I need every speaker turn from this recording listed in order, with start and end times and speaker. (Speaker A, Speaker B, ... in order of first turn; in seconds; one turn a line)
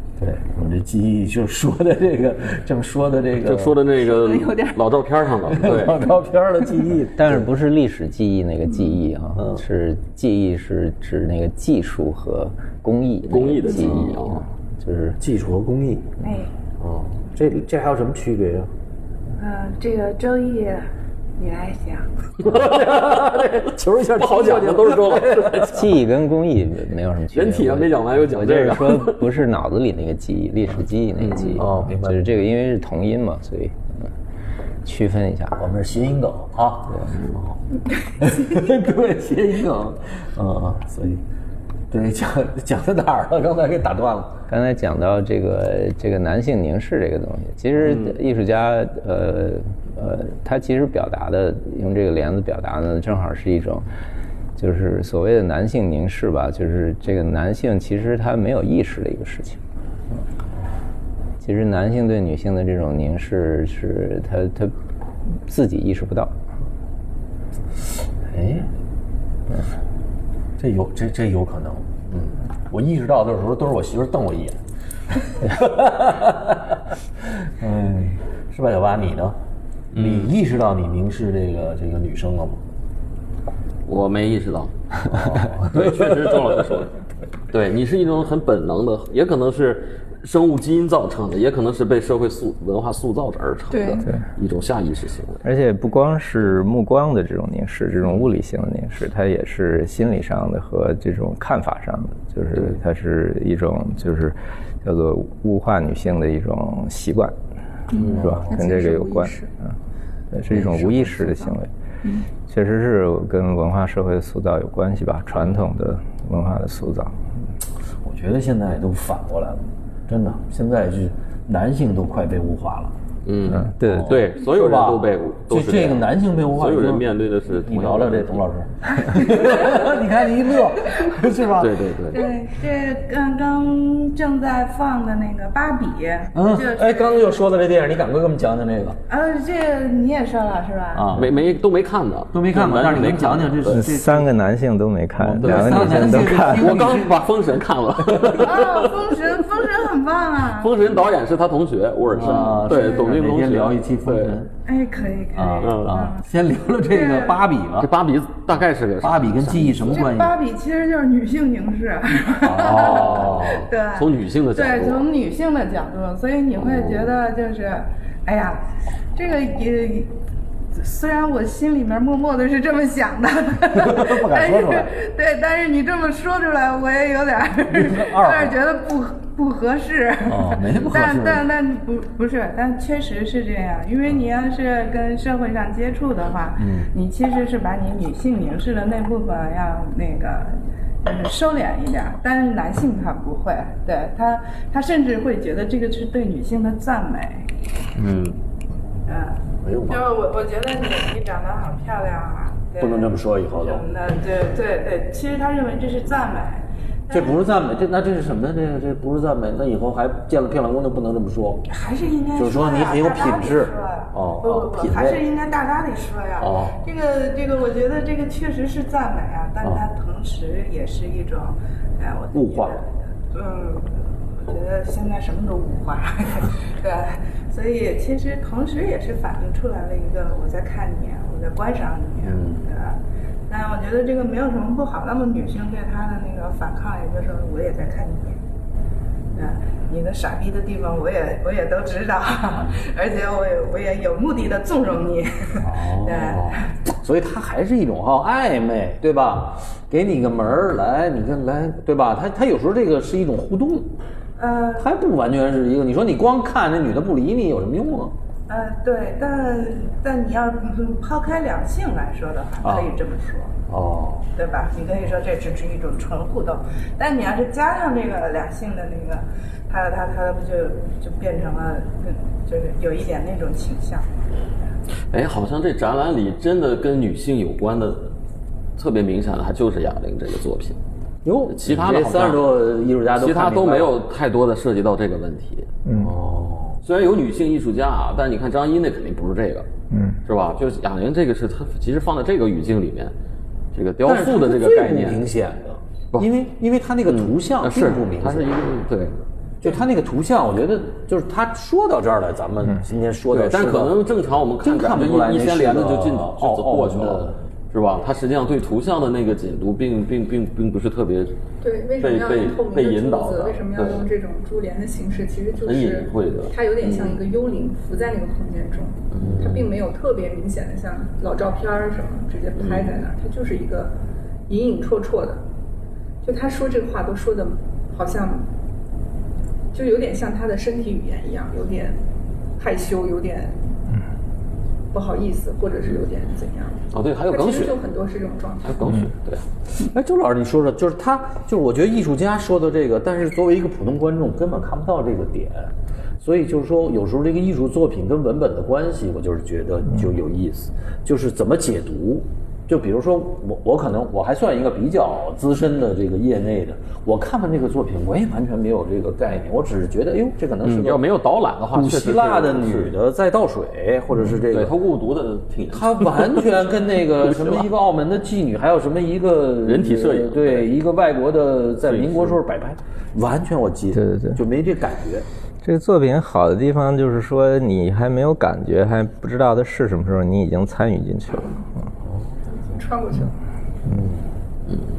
Speaker A: 0.2-3.8
Speaker B: 3.4-6.0
Speaker C: 4.0-4.8
Speaker A: 5.5-7.5
Speaker D: 7.1-15.2
Speaker A: 9.4-9.6
Speaker B: 13.2-14.4
Speaker A: 15.2-16.2
Speaker E: 16.2-16.5
Speaker A: 16.8-18.7
Speaker E: 19.4-22.1
Speaker B: 22.4-25.8
Speaker A: 22.4-25.9
Speaker D: 25.6-33.8
Speaker B: 27.3-29.2
Speaker B: 31.2-31.6
Speaker A: 31.6-32.3
Speaker D: 34.8-35.6
Speaker A: 35.6-37.6
Speaker A: 38.2-41.2
Speaker A: 41.9-44.4
Speaker D: 44.5-53.9
Speaker D: 54.6-59.6
Speaker D: 61.4-64.7
Speaker D: 65.5-66.3
Speaker A: 68.3-68.7
Speaker A: 70.6-74.6
Speaker A: 75.1-79.4
Speaker B: 79.9-80.3
Speaker A: 79.9-82.6
Speaker B: 83.9-86.9
Speaker A: 85.1-86.4
Speaker B: 87.5-95.4
Speaker C: 93.7-94.1
Speaker D: 95.4-107.4
Speaker C: 107.9-109.5
Speaker D: 108.0-109.7
Speaker A: 108.1-108.5
Speaker D: 110.3-111.7
Speaker C: 110.5-112.3
Speaker D: 112.5-117.2
Speaker A: 118.0-122.9
Speaker B: 123.2-128.5
Speaker D: 123.7-124.2
Speaker A: 123.8-131.9
Speaker E: 129.2-129.9
Speaker B: 131.6-132.2
Speaker E: 132.1-137.4
Speaker A: 136.3-139.0
Speaker E: 139.1-141.2
Speaker A: 140.9-141.3
Speaker B: 141.1-143.8
Speaker A: 142.3-144.3
Speaker D: 143.7-146.8
Speaker A: 145.2-147.3
Speaker B: 145.4-149.0
Speaker A: 148.1-148.3
Speaker E: 148.3-150.8
Speaker B: 150.4-154.4
Speaker A: 152.1-154.5
Speaker E: 152.4-153.1
Speaker E: 154.7-157.5
Speaker A: 155.3-157.9
Speaker B: 155.6-156.0
Speaker B: 157.8-160.0
Speaker A: 159.0-160.4
Speaker E: 159.9-170.2
Speaker A: 162.4-163.7
Speaker B: 162.6-165.1
Speaker B: 166.6-167.1
Speaker E: 170.8-197.5
Speaker A: 173.7-174.9
Speaker A: 177.7-178.6
Speaker A: 180.2-181.5
Speaker A: 186.6-186.9
Speaker B: 198.0-198.4
Speaker E: 199.1-207.4
Speaker A: 199.6-200.0
Speaker A: 202.8-203.8
Speaker A: 207.1-211.7
Speaker E: 211.7-233.0
Speaker A: 212.4-215.2
Speaker A: 216.4-216.8
Speaker A: 222.3-222.8
Speaker A: 232.2-232.6
Speaker E: 233.5-238.4
Speaker E: 239.3-246.7
Speaker A: 245.6-253.9
Speaker E: 254.4-254.9
Speaker A: 254.8-258.1
Speaker E: 258.5-263.6
Speaker A: 262.6-262.9
Speaker A: 263.7-264.3
Speaker E: 264.4-274.3
Speaker B: 275.1-278.1
Speaker B: 278.8-280.8
Speaker A: 281.2-283.9
Speaker B: 281.5-282.5
Speaker B: 283.1-285.7
Speaker A: 286.0-286.8
Speaker B: 286.8-289.7
Speaker D: 289.9-290.2
Speaker B: 290.3-293.1
Speaker B: 293.7-295.3
Speaker A: 294.0-298.6
Speaker B: 297.1-299.2
Speaker A: 299.6-304.1
Speaker B: 303.3-311.4
Speaker A: 304.6-307.4
Speaker C: 311.6-323.9
Speaker B: 312.0-314.1
Speaker B: 315.6-317.2
Speaker B: 319.1-319.7
Speaker A: 319.2-319.5
Speaker B: 322.6-322.9
Speaker C: 324.5-325.4
Speaker C: 326.2-328.5
Speaker C: 329.7-332.0
Speaker C: 332.6-333.6
Speaker C: 334.9-338.9
Speaker B: 336.9-337.8
Speaker B: 338.6-339.5
Speaker A: 339.8-361.0
Speaker B: 360.6-362.9
Speaker A: 361.7-364.8
Speaker B: 364.4-367.7
Speaker A: 365.7-375.3
Speaker B: 369.6-370.8
Speaker B: 371.9-372.4
Speaker D: 374.0-374.4
Speaker D: 375.6-381.7
Speaker C: 382.6-383.3
Speaker A: 383.9-384.3